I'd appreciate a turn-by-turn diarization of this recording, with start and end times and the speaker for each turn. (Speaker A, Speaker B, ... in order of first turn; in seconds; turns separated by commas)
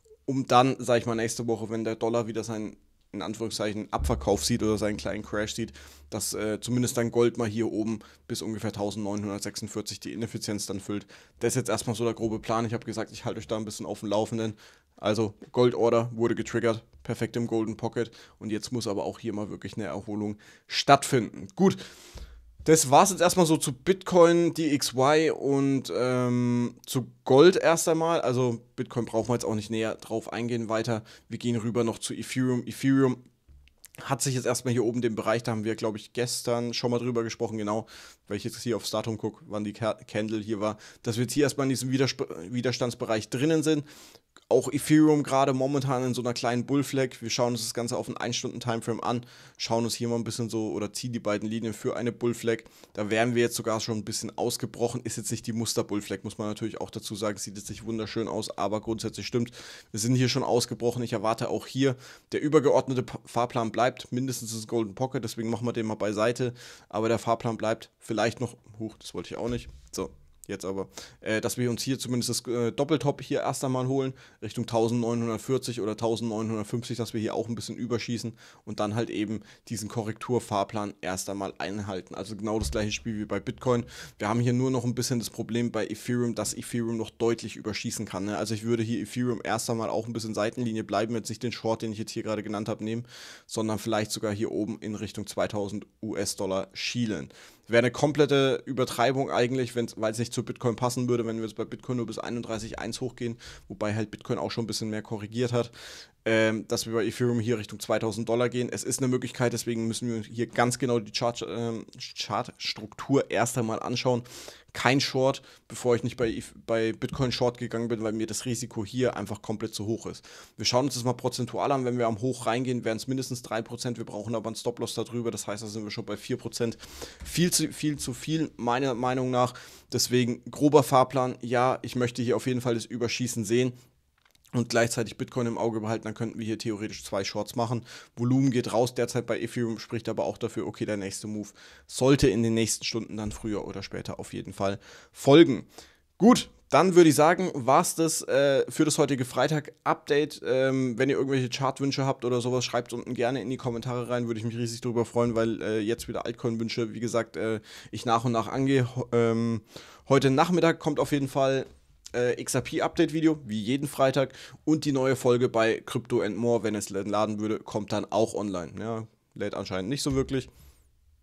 Speaker A: 0.3-21.8, Speaker A: 22.6-33.2, Speaker A: 34.0-43.9, Speaker A: 44.5-105.7, Speaker A: 106.2-133.8, Speaker A: 134.5-145.7, Speaker A: 146.2-170.5